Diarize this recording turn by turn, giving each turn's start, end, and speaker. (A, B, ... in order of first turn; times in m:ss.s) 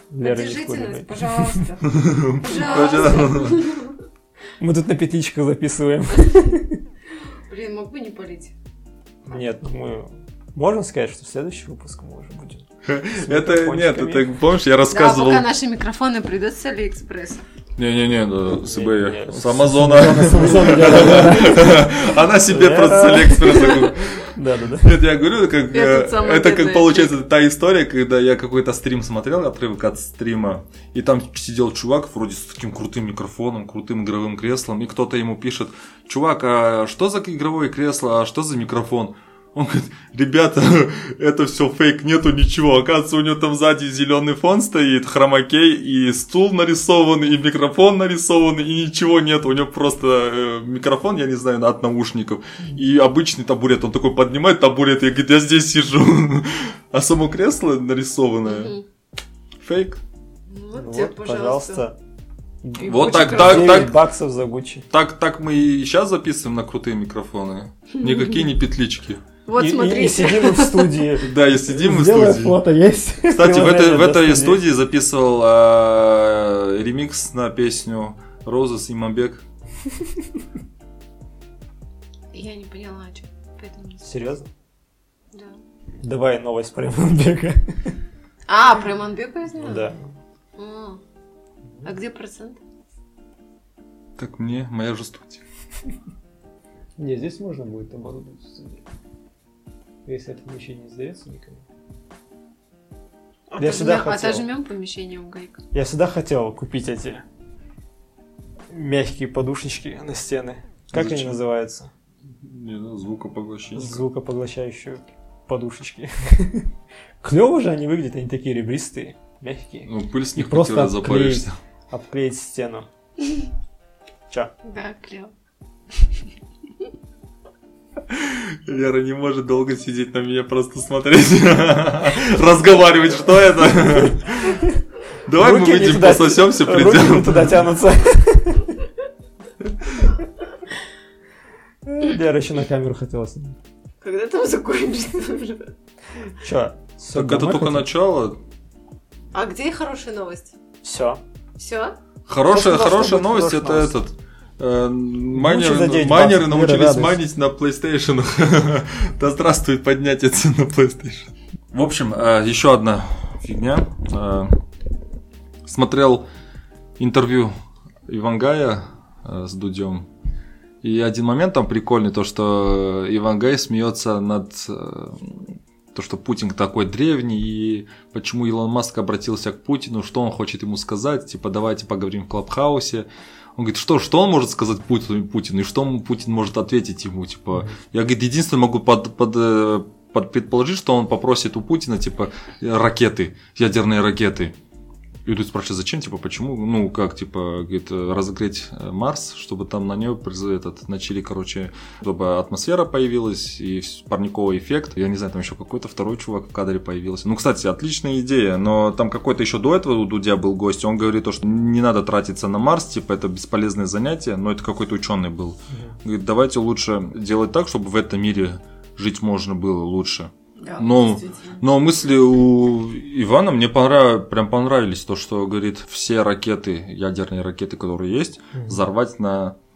0:00.1-0:01.6 A
0:00.2-0:04.0 B
0:01.8-0:03.7 C
0:04.6-0:06.8 A
0:07.5-0:08.5 B
0:09.3-0:14.3 A
0:12.9-0:15.5 C
0:14.9-0:17.4 B
0:17.8-0:58.7 C
0:18.5-0:22.0 A
0:22.5-0:25.0 A
0:23.4-0:23.9 B
0:25.7-0:27.2 B
0:58.4-0:58.8 B
0:59.6-1:00.0 C
1:00.5-1:01.9 B
1:00.8-1:02.0 A
1:02.6-1:04.9 A
1:02.8-1:03.9 B
1:02.9-1:04.0 C
1:04.9-1:09.2 C
1:09.5-1:10.9 B
1:09.6-1:14.6 A
1:11.2-1:12.6 C
1:13.3-1:19.4 C
1:22.3-1:24.1 B
1:24.0-1:24.5 A
1:25.3-1:25.6 B
1:26.0-1:28.0 A
1:28.5-1:29.9 B
1:29.6-1:30.0 A
1:30.6-1:31.0 B
1:31.8-1:32.6 B
1:34.2-1:35.4 C
1:37.0-1:38.8 A
1:40.0-1:41.6 A
1:43.5-1:45.6 B
1:43.6-1:44.5 A
1:45.7-1:47.2 A
1:48.7-1:51.9 A
1:50.9-1:51.4 C
1:52.4-1:54.0 C
1:53.7-2:02.9 A
1:59.9-2:01.6 C
2:04.6-2:05.3 B
2:08.1-2:14.7 C
2:15.3-2:17.6 C
2:15.4-2:18.8 A
2:21.9-2:23.6 A
2:24.0-2:25.7 B
2:26.4-2:27.9 A
2:27.1-2:28.4 C
2:29.3-2:30.5 B
2:30.8-2:31.2 A
2:31.6-2:32.0 B
2:32.3-2:44.5 C
2:32.5-2:34.0 A
2:35.3-2:37.2 A
2:45.7-2:46.3 C
2:47.0-2:47.5 C
2:48.1-2:50.1 C
2:50.8-3:14.5 C
3:15.2-3:49.6 C
3:40.6-3:41.6 B
3:48.6-3:48.8 A